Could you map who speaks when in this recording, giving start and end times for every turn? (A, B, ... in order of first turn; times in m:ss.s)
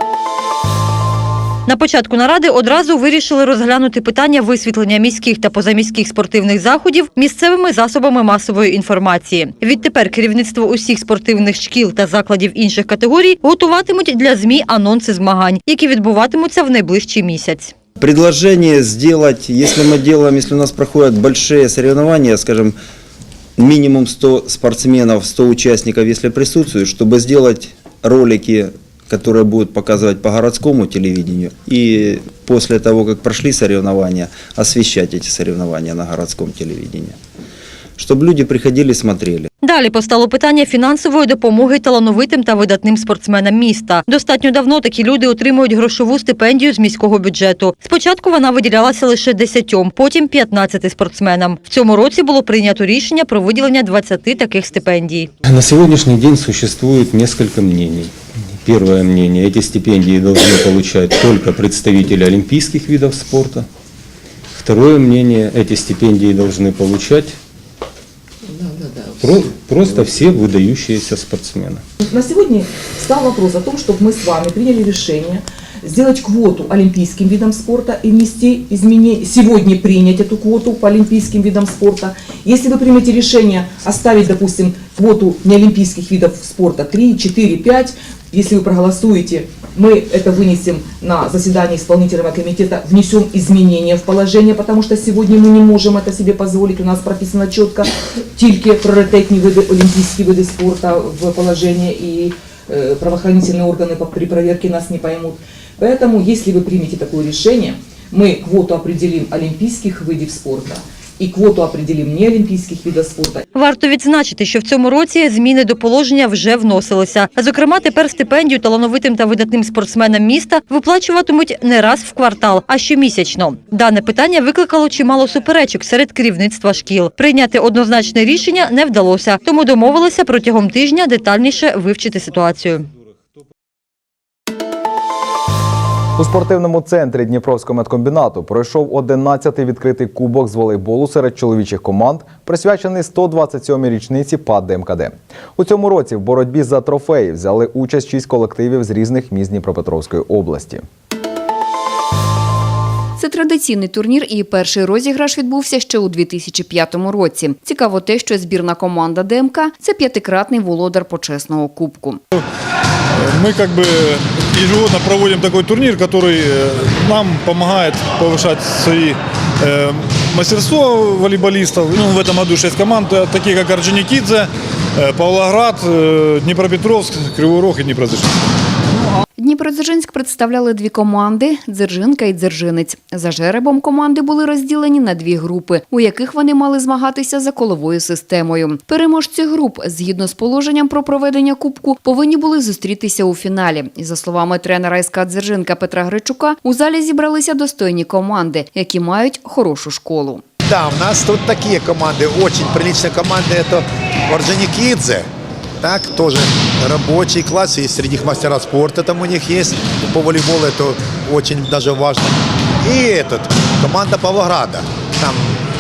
0:01.7-0:17.8 A
0:18.0-0:22.8 B
0:23.6-0:37.2 B
0:38.0-0:39.5 B
0:39.6-0:55.3 A
0:55.4-1:03.7 C
1:04.5-1:07.4 C
1:08.5-1:09.2 D
1:09.2-1:11.8 C
1:12.0-1:53.4 D
1:53.6-2:12.9 A
2:16.2-2:30.8 E
2:33.2-2:42.2 F
2:43.2-2:58.4 G
2:59.4-3:20.4 F
3:20.6-3:25.3 H
3:25.8-3:35.6 H